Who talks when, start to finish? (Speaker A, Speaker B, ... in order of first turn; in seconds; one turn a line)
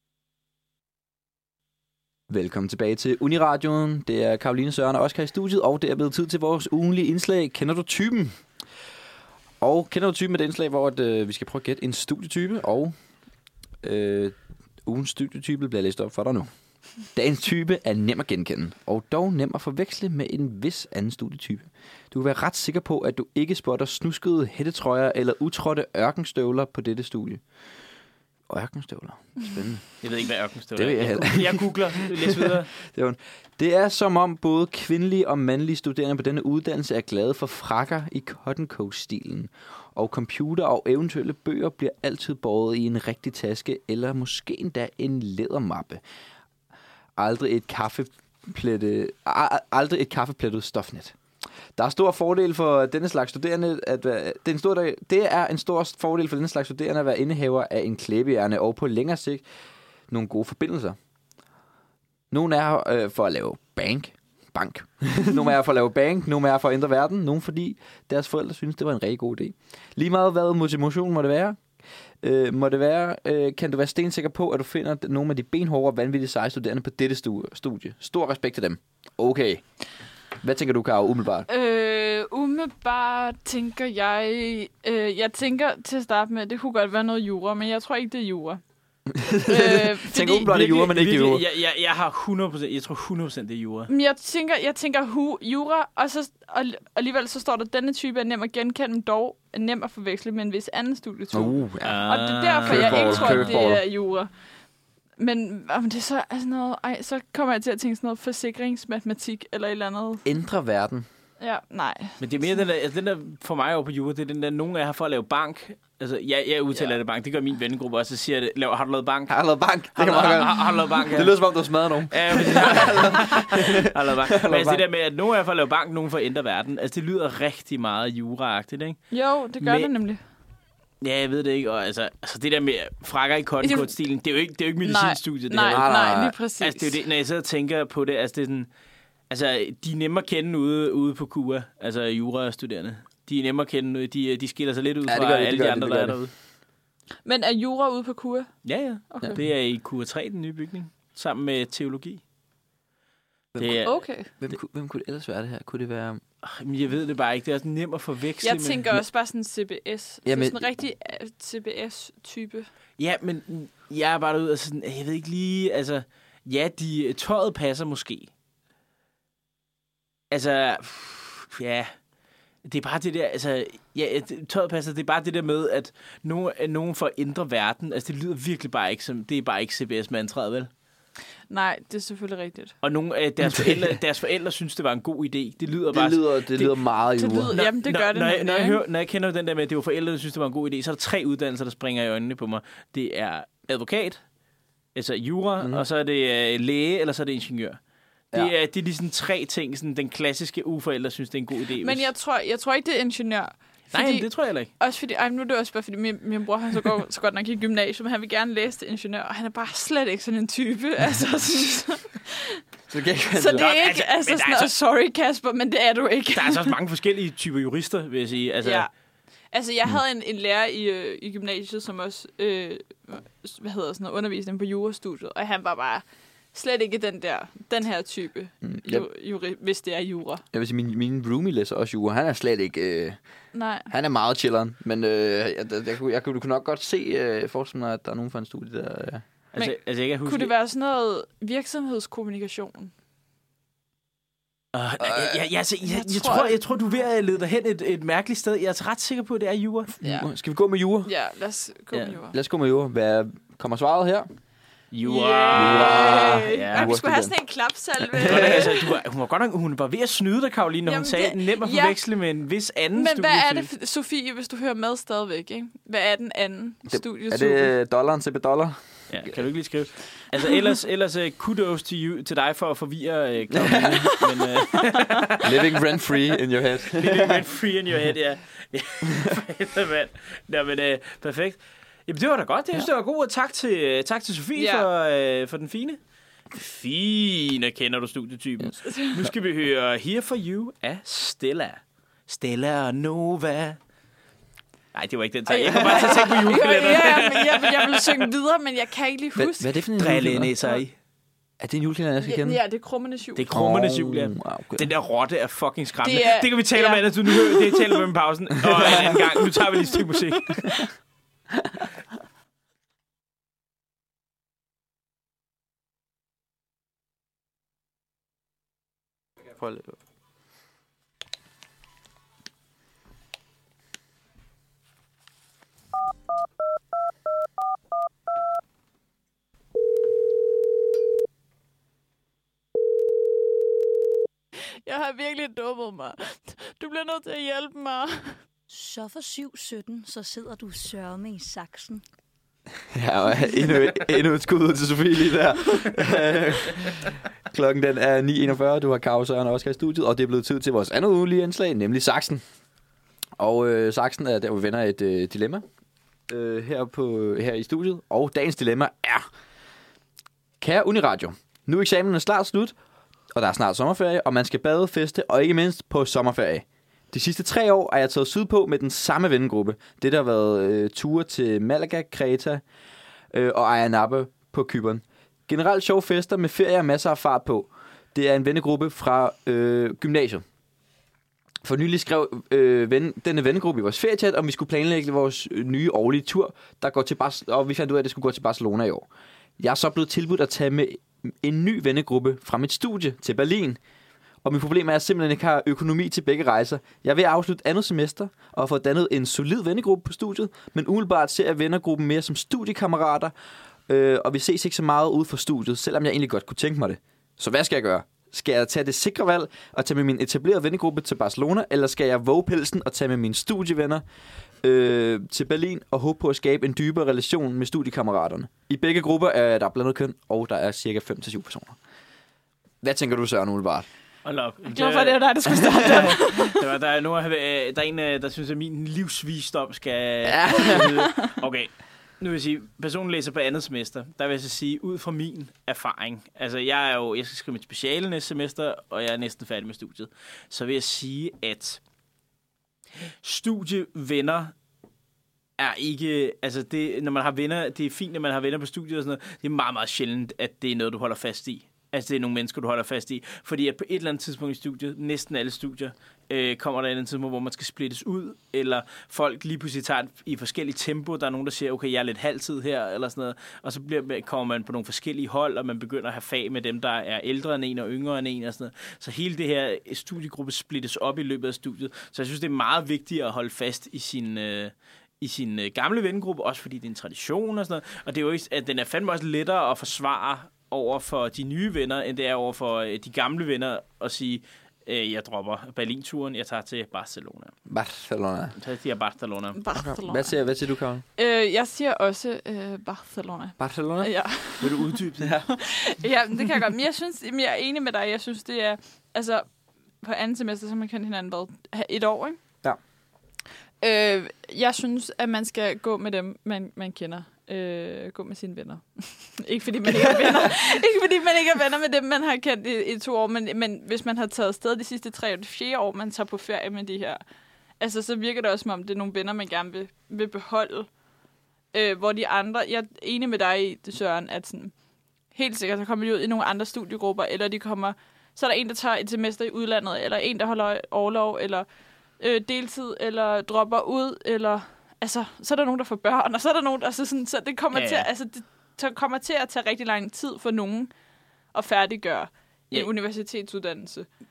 Speaker A: 2.3-8.4
Speaker A: 9.6-12.9
Speaker A: 13.8-14.3
Speaker A: 14.8-16.5
Speaker A: 17.1-27.4
Speaker A: 28.5-30.0
Speaker B: 30.0-32.7
Speaker A: 30.7-46.0
Speaker A: 47.2-51.1
Speaker A: 51.8-59.4
Speaker A: 60.1-61.0
Speaker A: 62.3-71.6
Speaker A: 72.2-79.6
Speaker A: 80.4-81.5
Speaker C: 81.5-88.6
Speaker A: 89.1-91.4
Speaker C: 89.5-90.5
Speaker B: 90.4-93.9
Speaker C: 93.9-104.3
Speaker A: 101.3-102.1
Speaker B: 101.8-103.7
Speaker A: 102.7-103.8
Speaker C: 105.2-110.2
Speaker A: 110.2-111.0
Speaker C: 111.4-112.6
Speaker B: 112.2-119.4
Speaker A: 119.3-124.8
Speaker B: 119.9-121.4
Speaker B: 122.1-129.1
Speaker C: 129.1-130.2
Speaker B: 129.6-129.9
Speaker B: 131.0-135.9
Speaker C: 133.6-133.9
Speaker C: 134.8-136.9
Speaker A: 135.6-136.3
Speaker B: 136.6-138.7
Speaker B: 139.3-146.3
Speaker A: 145.1-146.2
Speaker C: 147.2-148.5
Speaker B: 148.6-152.2
Speaker C: 149.1-149.4
Speaker A: 153.5-153.8
Speaker B: 153.6-154.0
Speaker C: 153.8-154.3
Speaker A: 154.4-156.2
Speaker B: 156.4-158.8
Speaker C: 158.4-162.7
Speaker A: 160.2-160.6
Speaker B: 163.0-168.3
Speaker B: 170.3-171.9
Speaker B: 172.6-180.7
Speaker C: 181.5-182.7
Speaker B: 182.8-186.8
Speaker A: 183.4-184.0
Speaker A: 185.9-187.5
Speaker C: 187.2-188.8
Speaker B: 187.5-194.2
Speaker B: 194.9-197.8
Speaker A: 195.6-195.8
Speaker B: 198.3-202.1
Speaker C: 201.8-204.3
Speaker B: 203.9-204.7
Speaker C: 204.8-212.6
Speaker A: 212.9-213.7
Speaker C: 213.3-216.7
Speaker B: 213.6-214.7
Speaker B: 216.3-218.9
Speaker C: 218.6-218.9
Speaker C: 219.5-230.4
Speaker A: 228.6-229.1
Speaker A: 230.5-233.2
Speaker C: 233.5-233.9
Speaker A: 233.9-239.2
Speaker B: 239.5-240.5
Speaker C: 239.6-242.9
Speaker B: 244.7-249.9
Speaker A: 245.0-245.4
Speaker C: 245.8-246.6
Speaker C: 250.0-250.3
Speaker A: 250.0-251.1
Speaker C: 251.0-252.3
Speaker A: 252.3-254.3
Speaker B: 254.9-256.9
Speaker C: 255.0-258.9
Speaker A: 255.5-257.3
Speaker A: 258.0-258.7
Speaker B: 258.2-263.7
Speaker C: 260.8-262.0
Speaker C: 262.9-267.7
Speaker A: 266.9-269.3
Speaker B: 269.1-275.8
Speaker A: 273.5-274.0
Speaker A: 275.4-277.4
Speaker B: 276.8-286.0
Speaker C: 284.6-284.9
Speaker B: 286.5-293.8
Speaker C: 288.8-289.2
Speaker B: 294.9-298.2
Speaker C: 295.5-299.7
Speaker A: 299.4-300.5
Speaker B: 300.0-300.9
Speaker A: 301.6-302.6
Speaker C: 302.2-303.5
Speaker B: 303.4-310.8
Speaker A: 303.5-304.9
Speaker C: 306.0-308.0
Speaker C: 308.8-310.0
Speaker A: 319.6-319.9
Speaker C: 334.8-338.4
Speaker D: 338.7-342.0
Speaker A: 342.9-352.4
Speaker A: 353.4-355.6
Speaker A: 356.3-359.2
Speaker A: 360.6-362.7
Speaker A: 363.3-372.6
Speaker A: 373.3-380.4
Speaker A: 381.6-389.1
Speaker A: 389.6-393.8
Speaker A: 394.4-403.3
Speaker A: 403.9-414.0
Speaker A: 414.6-421.8
Speaker A: 422.8-423.9
Speaker B: 424.2-441.8
Speaker C: 424.7-426.6
Speaker A: 425.5-426.1
Speaker A: 430.2-430.9
Speaker B: 443.2-444.5
Speaker B: 445.6-487.5
Speaker A: 487.7-488.5
Speaker B: 488.6-489.6
Speaker C: 489.6-490.3
Speaker A: 489.8-491.0
Speaker C: 491.1-494.9
Speaker A: 493.6-494.1
Speaker B: 494.6-495.4
Speaker A: 495.2-495.5
Speaker C: 495.5-499.4
Speaker C: 500.0-502.4
Speaker C: 503.8-517.2
Speaker A: 510.1-510.4
Speaker C: 517.8-520.9
Speaker C: 521.7-524.7
Speaker C: 525.3-531.6
Speaker C: 532.2-540.9
Speaker B: 537.7-538.1
Speaker C: 541.5-544.1